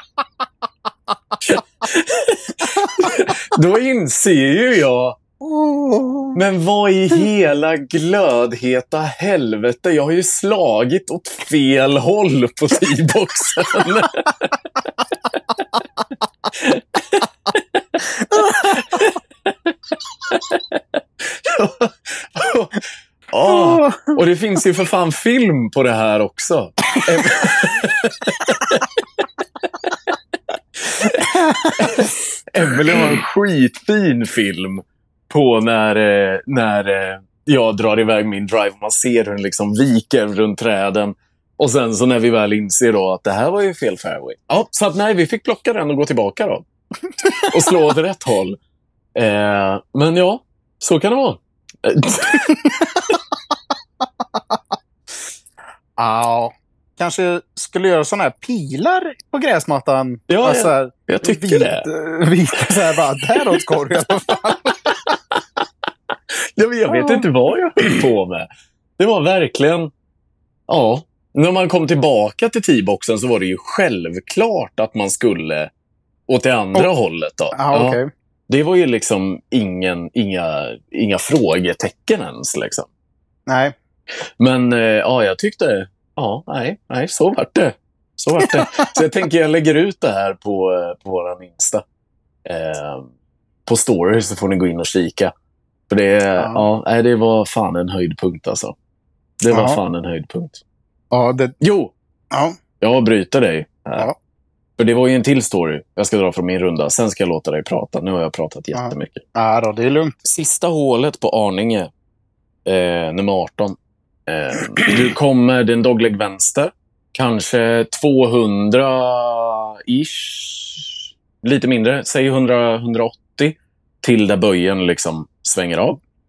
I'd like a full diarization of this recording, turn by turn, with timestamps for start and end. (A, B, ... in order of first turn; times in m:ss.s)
0:01.4-0:05.2 A
0:05.4-0:06.4 B
0:06.3-0:15.4 A
0:16.5-0:19.7 A
0:18.3-0:19.0 B
0:20.2-0:22.8 A
0:23.3-0:29.0 A
0:23.4-0:24.2 B
0:29.6-0:30.0 A
0:30.8-0:46.6 A
0:31.3-0:32.1 B
0:47.4-0:48.6 A
0:49.1-0:53.1 A
0:56.0-1:05.0 B
1:00.3-1:01.9 A
1:03.3-1:03.6 A
1:06.6-1:08.5 A
1:06.9-1:07.2 B
1:09.0-1:09.9 A
1:10.7-1:15.7 A
1:16.3-1:22.9 A
1:17.5-1:18.1 B
1:23.5-1:23.7 B
1:24.4-1:31.8 A
1:28.6-1:29.0 B
1:32.4-1:33.1 A
1:33.6-1:35.3 A
1:35.9-1:38.7 A
1:36.4-1:36.6 B
1:39.4-1:40.6 A
1:39.5-1:39.8 B
1:41.1-1:41.5 B
1:41.6-1:41.9 A
1:42.3-1:42.6 B
1:42.8-1:44.1 A
1:44.8-1:49.2 A
1:48.7-1:50.2 B
1:50.2-1:51.9 A
1:52.6-1:53.8 A
1:54.3-2:06.0 A